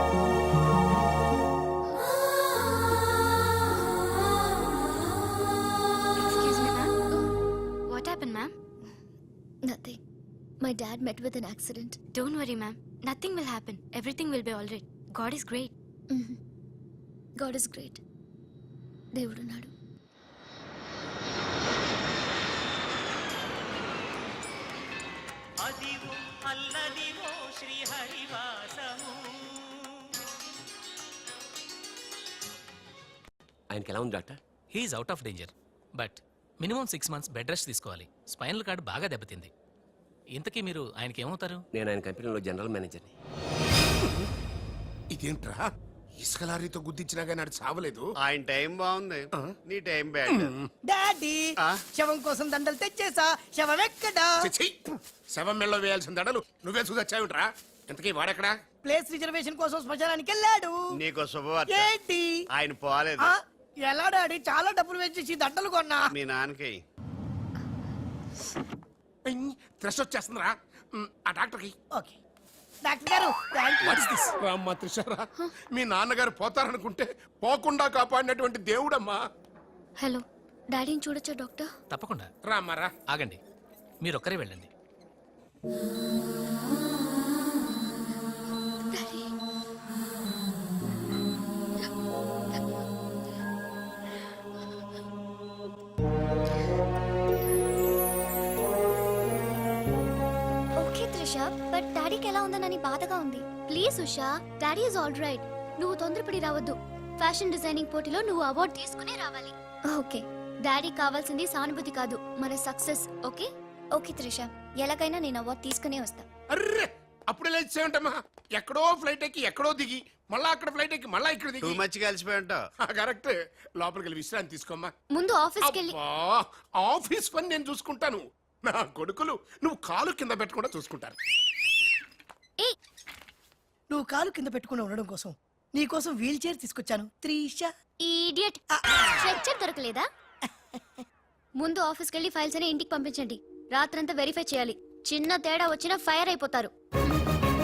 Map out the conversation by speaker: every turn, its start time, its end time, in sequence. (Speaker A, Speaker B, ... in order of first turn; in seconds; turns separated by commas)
Speaker A: 6.3-6.9, Speaker A: 7.9-8.5, Speaker B: 9.7-10.0, Speaker B: 10.6-12.0, Speaker A: 12.1-15.7, Speaker B: 16.1-16.4, Speaker B: 17.4-18.0, Speaker B: 19.1-19.7, Speaker C: 33.7-34.4, Speaker D: 34.7-39.5, Speaker D: 40.4-41.6, Speaker C: 41.7-43.1, Speaker E: 45.1-45.6, Speaker E: 46.2-48.1, Speaker F: 48.2-50.5, Speaker E: 50.3-50.7, Speaker G: 50.8-54.5, Speaker E: 54.4-54.8, Speaker E: 55.3-58.5, Speaker G: 58.8-61.0, Speaker F: 60.9-61.9, Speaker G: 61.7-62.4, Speaker F: 62.5-63.4, Speaker G: 63.9-66.1, Speaker F: 66.1-66.8, Speaker E: 69.3-71.7, Speaker G: 72.8-74.2, Speaker E: 73.8-79.2, Speaker B: 80.0-81.7, Speaker D: 81.9-82.3, Speaker E: 82.4-82.9, Speaker D: 83.1-83.4, Speaker D: 84.0-84.7, Speaker B: 88.9-89.3, Speaker B: 100.8-116.2, Speaker E: 116.5-121.8, Speaker F: 121.6-122.6, Speaker E: 122.8-124.9, Speaker B: 125.1-125.9, Speaker E: 125.6-131.2, Speaker G: 133.9-137.7, Speaker B: 138.0-138.6, Speaker B: 139.2-140.0, Speaker B: 141.6-147.2